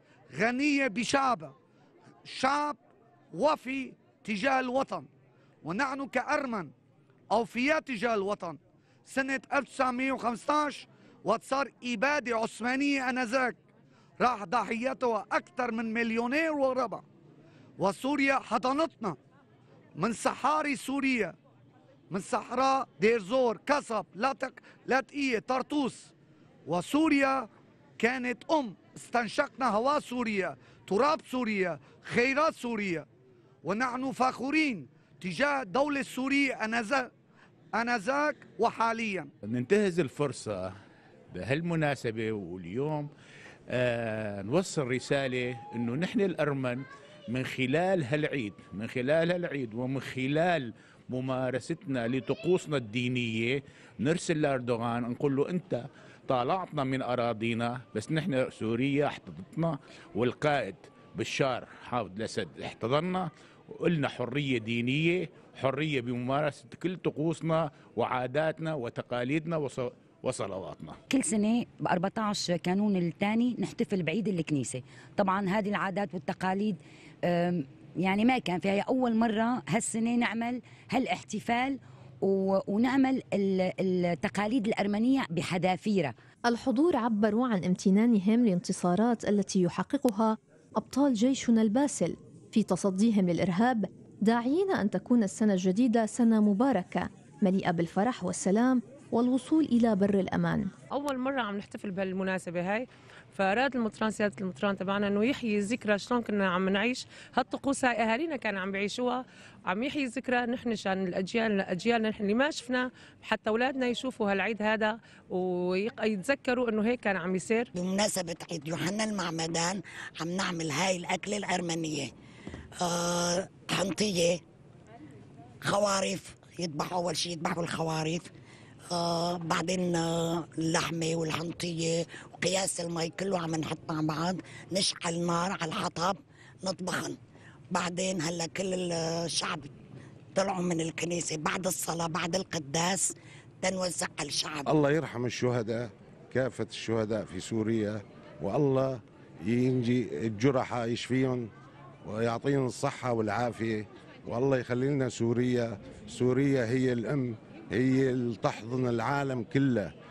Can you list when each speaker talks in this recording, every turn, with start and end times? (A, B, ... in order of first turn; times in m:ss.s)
0:00.3-0:01.5 A
0:02.2-0:02.8 A
0:03.3-0:05.1 A
0:05.6-0:06.7 A
0:07.3-0:13.6 A
0:14.2-0:17.0 A
0:17.8-0:19.2 A
0:20.0-0:21.3 A
0:22.1-0:26.1 A
0:26.7-0:27.5 A
0:28.0-0:33.0 A
0:33.6-0:37.1 A
0:37.8-0:39.3 A
0:39.5-0:40.7 B
0:41.3-0:43.1 B
0:43.7-1:11.0 B
1:11.1-1:26.1 C
1:26.5-1:40.7 D
1:40.9-1:57.7 E
1:57.8-2:02.1 F
2:02.8-2:04.4 F
2:05.6-2:08.3 F
2:08.9-2:17.2 F
2:17.7-2:19.7 F
2:20.4-2:24.7 F
2:24.7-2:31.5 G
2:32.0-2:39.9 G